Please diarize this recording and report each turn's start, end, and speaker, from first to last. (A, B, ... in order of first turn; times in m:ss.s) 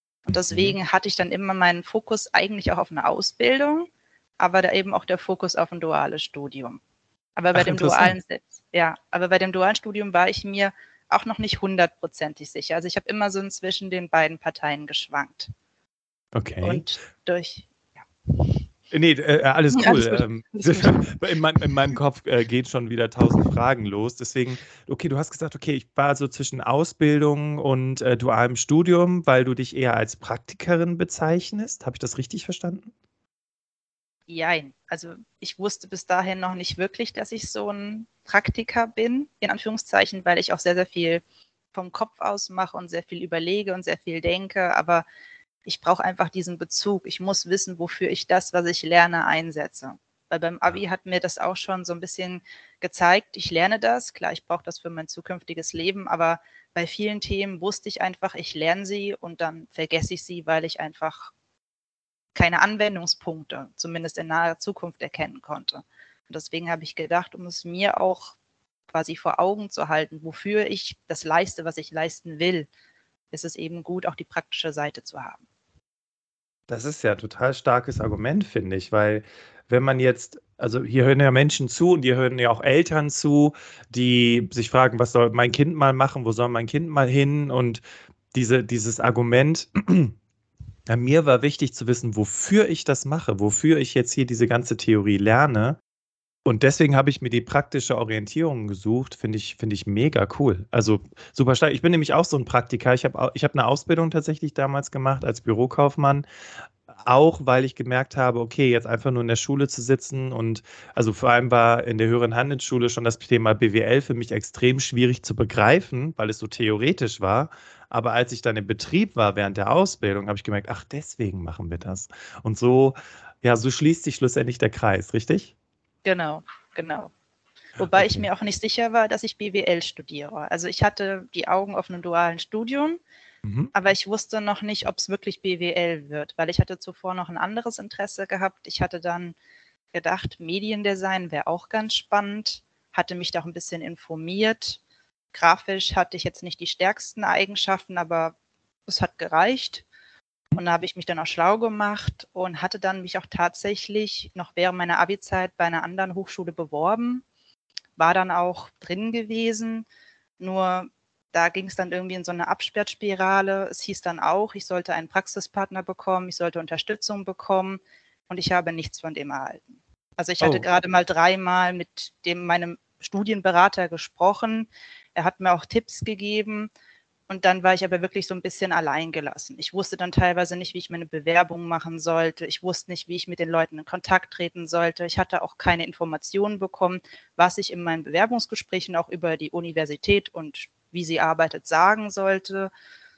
0:00.3-0:06.8 A
0:00.5-0:00.8 B
0:07.4-0:15.5 A
0:07.5-0:08.1 B
0:16.3-0:16.8 B
0:16.6-0:17.7 A
0:18.3-0:18.6 A
0:18.9-0:32.9 B
0:19.7-0:21.2 A
0:34.3-0:41.2 A
0:41.7-0:45.0 A
0:45.6-1:01.3 A
1:02.3-1:08.3 A
1:08.9-1:12.7 A
1:13.3-1:15.4 A
1:16.7-1:27.8 B
1:28.3-1:30.1 B
1:30.9-1:35.8 B
1:36.4-1:46.2 B
1:47.0-2:05.5 B
2:06.0-2:07.1 A
2:07.8-2:13.0 A
2:07.9-2:08.3 B
2:13.4-2:13.7 B
2:13.7-2:19.4 A
2:19.9-2:24.8 A
2:25.3-2:28.3 A
2:28.9-2:29.8 A
2:30.5-2:37.2 A
2:38.0-2:39.8 A
2:40.4-2:56.7 A
2:50.4-2:50.7 B
2:57.3-3:12.7 A